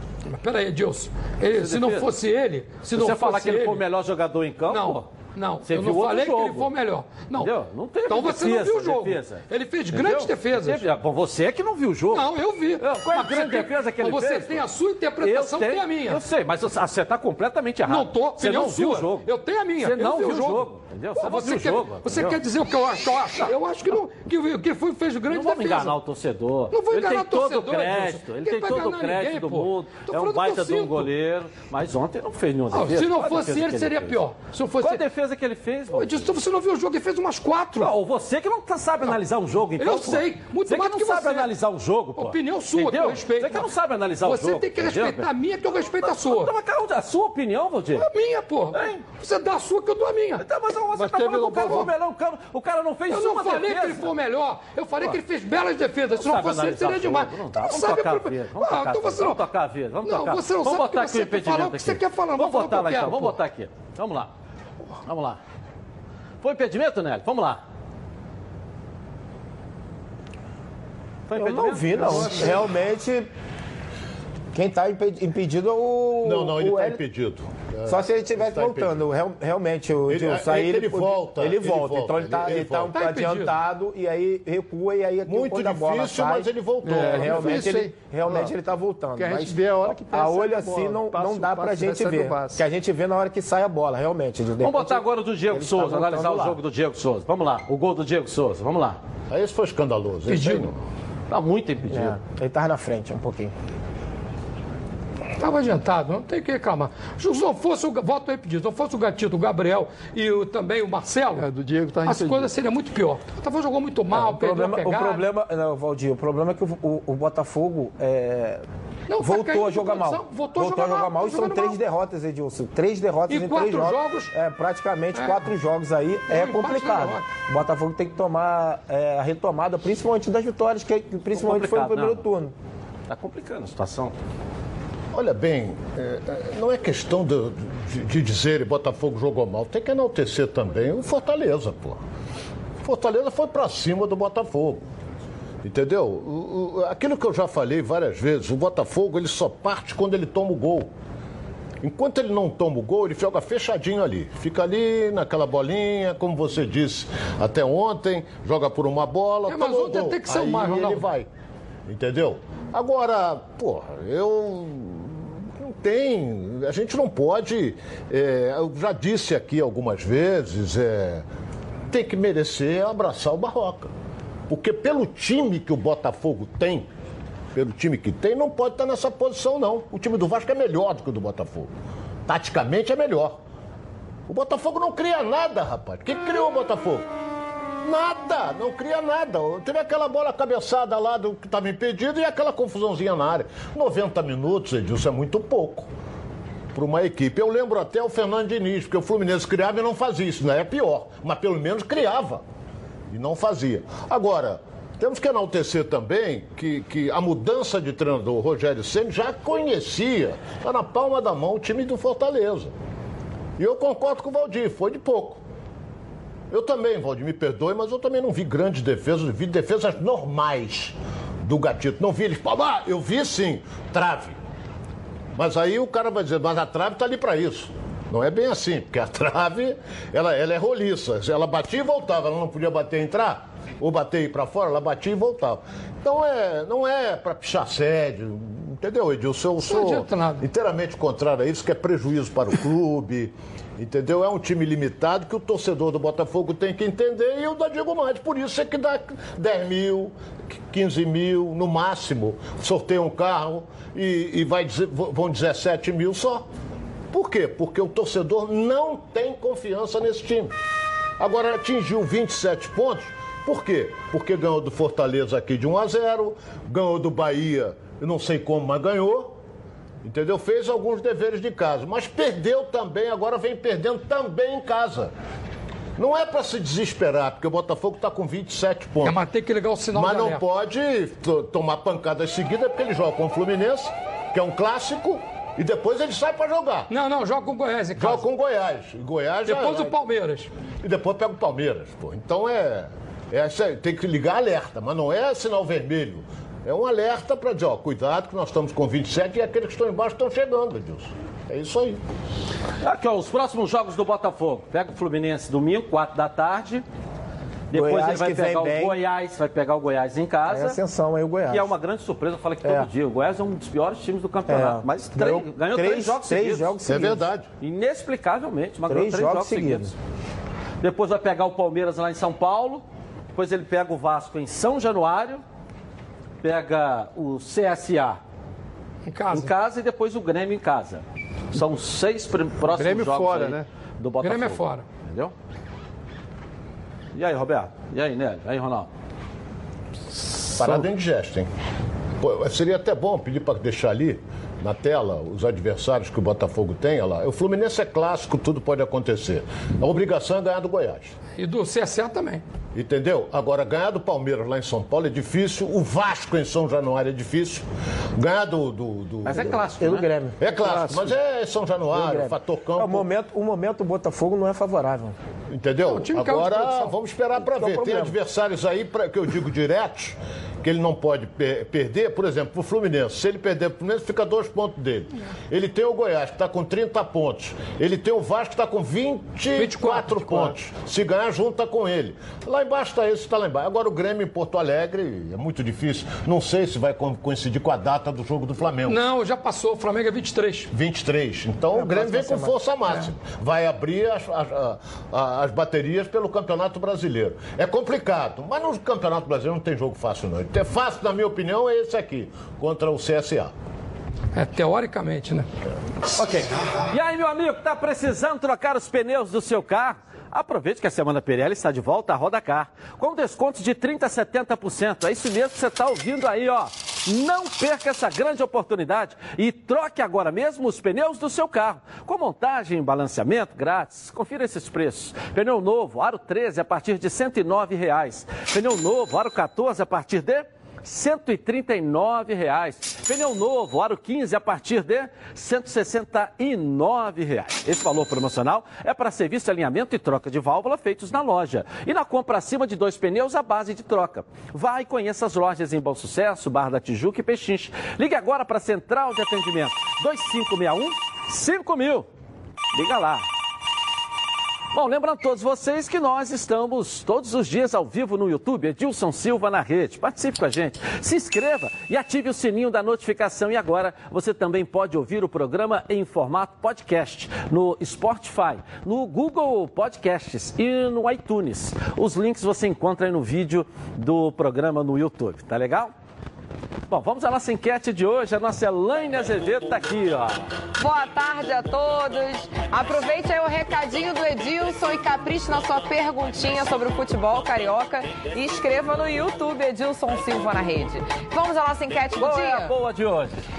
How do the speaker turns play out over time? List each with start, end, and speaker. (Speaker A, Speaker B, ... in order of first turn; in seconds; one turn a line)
Speaker A: 0.3-3.8
Speaker B: 1.5-2.1
Speaker B: 2.9-5.1
Speaker A: 4.7-7.5
Speaker B: 5.6-6.7
Speaker B: 7.4-14.7
Speaker A: 8.1-10.8
Speaker A: 12.1-16.2
Speaker B: 15.2-19.3
Speaker A: 17.9-26.0
Speaker B: 19.8-22.4
Speaker B: 25.3-34.2
Speaker A: 26.7-31.1
Speaker A: 32.7-35.0
Speaker B: 34.8-36.3
Speaker A: 35.9-37.9
Speaker B: 37.8-48.1
Speaker A: 39.8-41.5
Speaker A: 42.2-43.7
Speaker A: 44.2-46.5
Speaker A: 48.0-50.5
Speaker B: 48.7-49.0
Speaker B: 50.4-54.2
Speaker C: 51.0-51.8
Speaker A: 51.1-51.9
Speaker A: 53.1-59.4
Speaker B: 56.2-64.3
Speaker A: 60.0-63.4
Speaker B: 65.0-65.4
Speaker B: 66.4-67.6
Speaker B: 71.3-72.7
Speaker D: 71.3-73.3
Speaker D: 74.5-77.0
Speaker E: 76.2-79.0
Speaker D: 77.8-96.6
Speaker E: 80.1-83.0
Speaker A: 82.9-83.5
Speaker E: 85.3-87.8
Speaker C: 86.8-88.5
Speaker C: 89.2-92.6
Speaker B: 94.6-99.0
Speaker E: 99.3-100.8
Speaker A: 100.3-100.7
Speaker B: 101.3-102.2
Speaker D: 101.9-103.5
Speaker A: 105.4-111.5
Speaker C: 111.3-112.5
Speaker A: 112.0-115.3
Speaker D: 114.1-118.6
Speaker A: 119.1-121.8
Speaker D: 119.2-132.5
Speaker A: 123.3-124.3
Speaker A: 125.2-125.5
Speaker A: 126.3-127.3
Speaker B: 131.3-132.2
Speaker B: 133.1-134.2
Speaker E: 135.1-142.0
Speaker E: 142.8-144.8
Speaker E: 145.6-150.9
Speaker E: 151.8-161.3
Speaker A: 159.5-161.1
Speaker E: 161.9-171.3
Speaker E: 171.9-173.9
Speaker E: 174.5-176.9
Speaker E: 177.5-181.7
Speaker E: 182.3-183.4
Speaker E: 184.3-187.1
Speaker E: 187.8-195.9
Speaker E: 196.7-202.4
Speaker E: 203.1-212.7
Speaker E: 213.6-215.4
Speaker E: 216.5-224.4
Speaker E: 225.3-250.1
Speaker A: 239.6-240.4
Speaker E: 250.7-256.4
Speaker E: 257.1-260.5
Speaker E: 261.2-269.3
Speaker E: 270.0-275.1
Speaker E: 276.0-279.2
Speaker A: 279.0-280.4
Speaker E: 279.9-286.9
Speaker A: 286.9-288.2
Speaker E: 288.0-290.0
Speaker A: 289.5-290.5
Speaker E: 290.8-302.0
Speaker B: 302.8-306.8
Speaker B: 307.7-310.8
Speaker D: 307.7-309.0
Speaker D: 310.5-311.7
Speaker B: 311.5-316.7
Speaker D: 312.6-312.9
Speaker D: 314.5-317.2
Speaker E: 316.9-317.5
Speaker B: 317.6-319.9
Speaker D: 318.9-319.9
Speaker B: 320.8-322.8
Speaker B: 323.4-325.4
Speaker B: 326.4-328.2
Speaker A: 329.1-329.5
Speaker B: 329.3-335.3
Speaker C: 332.7-333.7
Speaker A: 334.2-334.9
Speaker B: 337.1-338.9
Speaker E: 340.5-341.5
Speaker E: 342.2-351.1
Speaker A: 351.4-352.4
Speaker E: 352.7-357.6
Speaker E: 358.2-359.6
Speaker B: 359.3-360.1
Speaker D: 359.3-361.2
Speaker E: 360.4-363.1
Speaker D: 361.9-365.2
Speaker E: 365.5-389.0
Speaker A: 365.9-366.9
Speaker D: 367.4-368.2
Speaker A: 379.6-380.5
Speaker A: 388.9-390.7
Speaker E: 390.7-403.5
Speaker D: 391.7-393.1
Speaker A: 404.3-405.5
Speaker B: 406.1-452.1
Speaker B: 452.7-453.2
Speaker B: 454.7-475.9
Speaker B: 476.9-480.4
Speaker F: 480.8-492.7
Speaker B: 492.1-493.4